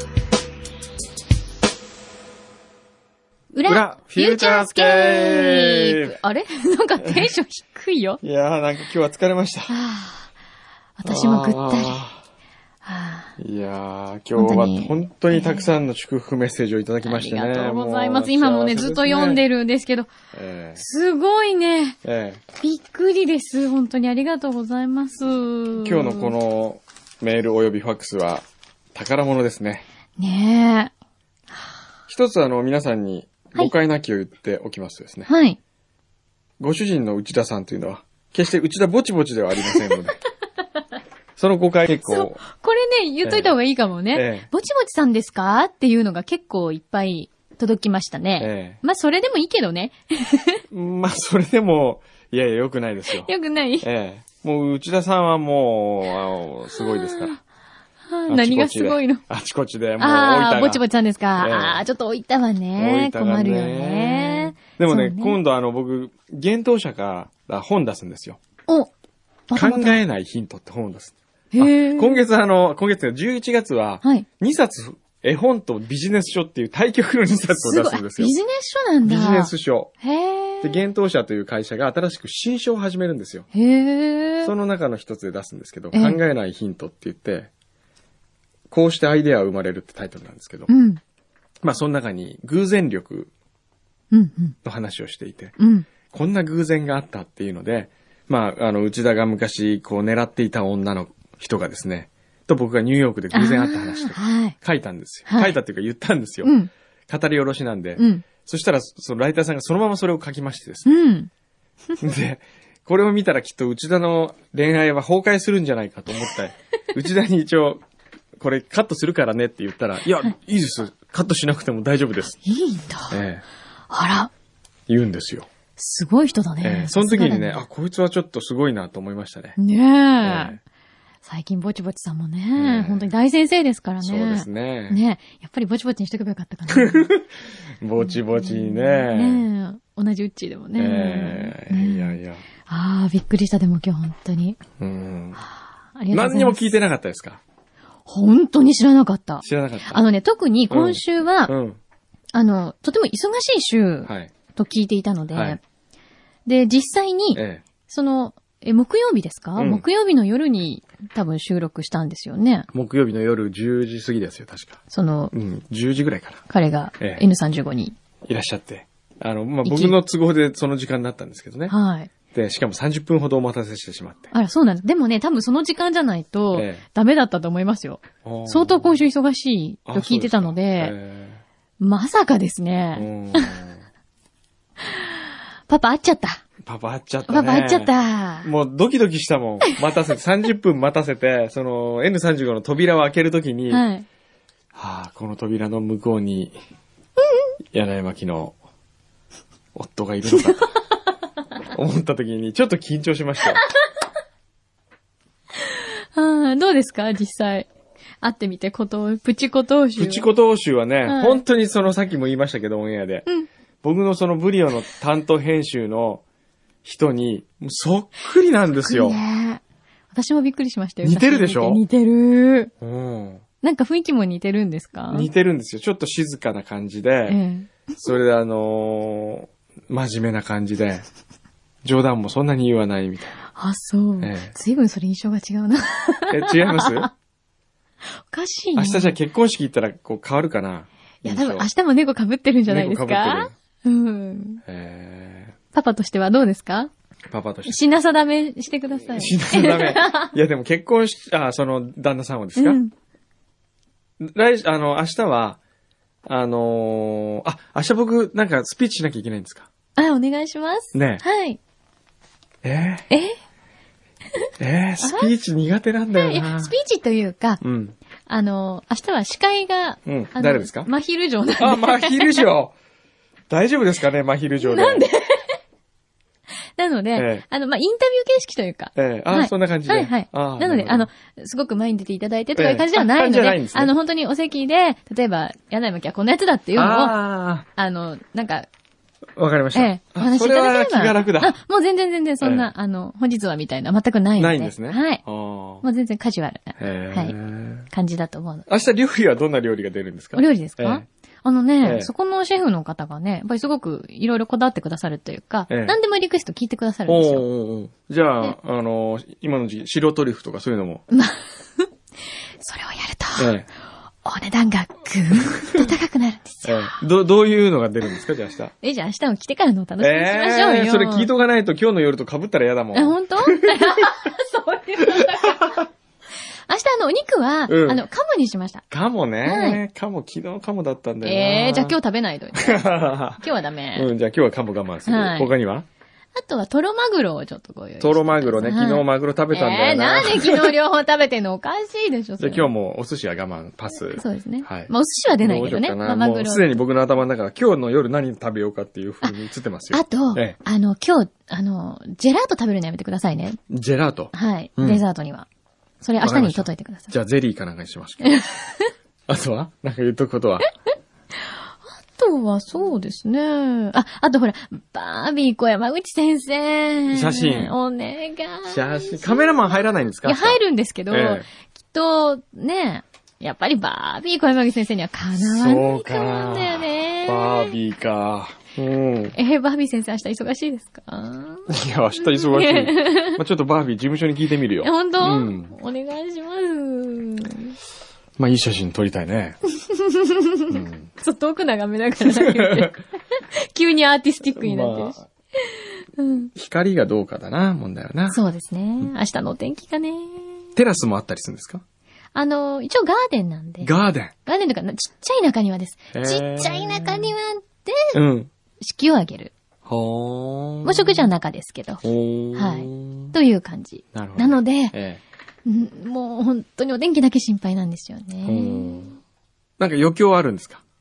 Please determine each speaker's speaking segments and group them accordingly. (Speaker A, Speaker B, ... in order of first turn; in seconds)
Speaker A: 3.5-8.2, 9.7-10.3, 11.0-12.0, 12.8-13.3, 14.3-15.7, 17.0-20.1, 20.8-22.0, 22.6-26.3, 30.2-30.9, 35.3-35.6, 39.6-40.0, 42.0-50.6, 53.1-53.9, 56.7-57.4, 58.1-59.2, 60.0-65.4, 69.5-70.0, 71.5-72.2, 77.5-80.8, 83.5-84.5, 85.9-86.2, 90.7-91.0, 94.1-94.5, 95.6-95.9, 103.3-104.5, 105.3-105.6, 106.4-106.7, 108.0-108.2, 110.8-111.3, 122.4-123.2, 123.9-124.3, 125.8-127.6, 129.6-130.6, 131.2-137.1, 138.0-144.6, 145.9-146.7, 148.1-151.5, 152.3-155.6, 156.4-162.7, 164.9-165.3, 166.5-167.9, 169.6-170.0, 171.7-172.1, 174.3-180.9, 181.8-183.6, 184.8-186.4, 187.3-188.5, 193.7-194.1, 205.6-207.7, 208.2-210.3, 211.0-211.4, 218.7-219.6, 220.1-222.7, 223.6-225.3, 227.3-228.2, 233.5-237.1, 238.2-239.2, 241.2-244.6, 245.7-246.9, 247.6-250.3, 252.6-252.9, 259.9-261.6, 263.1-263.4, 265.0-265.3, 266.1-267.6, 268.3-272.5, 274.6-275.6, 276.8-287.2, 287.8-288.7, 289.7-295.2, 295.8-297.3, 297.9-298.7, 300.3-307.4, 311.1-311.9, 312.6-313.5, 314.2-316.9, 318.8-321.3, 322.9-325.9, 326.7-328.8, 329.4-329.8, 331.2-334.1, 335.1-335.5, 336.4-342.7, 344.1-346.7, 349.9-353.6, 354.3-355.5, 356.0-357.1, 358.2-358.9, 362.1-377.7, 379.3-383.4, 384.8-387.7, 389.8-396.5, 398.3-400.6, 402.3-403.9, 404.4-408.1, 408.8-409.5, 410.8-412.0, 412.5-414.9, 415.6-419.1
Speaker B: 3.6-6.2, 8.2-9.7, 11.0-12.2, 13.4-19.4, 20.3-20.8, 22.0-22.4, 25.8-29.8, 32.1-35.3, 36.6-40.2, 41.4-42.4, 43.2-43.5, 44.1-44.5, 48.4-48.8, 50.7-53.3, 53.8-57.4, 58.3-60.8, 61.4-61.8, 62.8-68.4, 69.5-78.3, 79.0-79.9, 80.6-83.5, 84.4-87.5, 88.7-90.7, 91.6-93.3, 94.6-95.5, 96.1-106.5, 107.1-110.9, 112.0-117.8, 118.4-122.4, 123.1-123.4, 124.9-125.5, 126.6-129.6, 130.2-130.6, 132.6-133.1, 134.0-135.0, 136.7-137.3, 137.8-139.5, 140.8-142.4, 144.8-145.4, 146.1-147.4, 149.4-150.0, 150.7-151.8, 157.3-157.6, 159.6-159.8, 162.7-164.8, 165.3-166.4, 168.2-171.7, 172.3-174.3, 176.5-176.8, 178.2-179.0, 179.9-181.4, 182.9-183.8, 186.6-193.8, 194.7-196.6, 197.7-198.5, 199.7-200.7, 201.7-203.6, 210.0-213.2, 213.8-216.2, 216.8-219.2, 221.0-221.8, 222.8-223.4, 225.1-227.4, 228.0-231.0, 231.8-233.4, 234.2-234.5, 236.3-237.1, 238.8-241.7, 242.7-243.5, 244.7-245.5, 247.3-247.8, 249.1-252.8, 254.2-255.6, 256.2-259.7, 260.9-261.2, 262.6-263.0, 264.6-266.7, 267.6-267.9, 270.1-270.9, 271.6-272.7, 273.5-275.1, 277.1-277.4, 278.9-281.1, 282.5-283.9, 286.7-287.6, 289.4-291.6, 292.4-292.7, 294.4-295.8, 296.8-297.9, 298.7-301.0, 301.8-302.1, 305.7-305.9, 307.1-311.0, 313.4-313.7, 316.6-318.7, 320.0-323.9, 325.1-325.7, 327.7-328.0, 328.9-331.9, 332.5-333.4, 333.9-335.8, 338.0-340.8, 342.4-350.6, 353.7-355.0, 356.2-358.4, 359.3-360.7, 367.1-367.7, 368.7-370.6, 371.1-371.4, 375.4-379.4, 381.7-385.8, 388.4-389.6, 390.7-391.1, 392.2-392.9, 394.5-395.2, 396.5-398.4, 400.8-401.8, 403.8-404.3, 406.1-407.3, 408.1-408.5, 409.9-411.3, 412.0-413.3, 414.1-415.2, 418.4-419.1, 419.8-420.8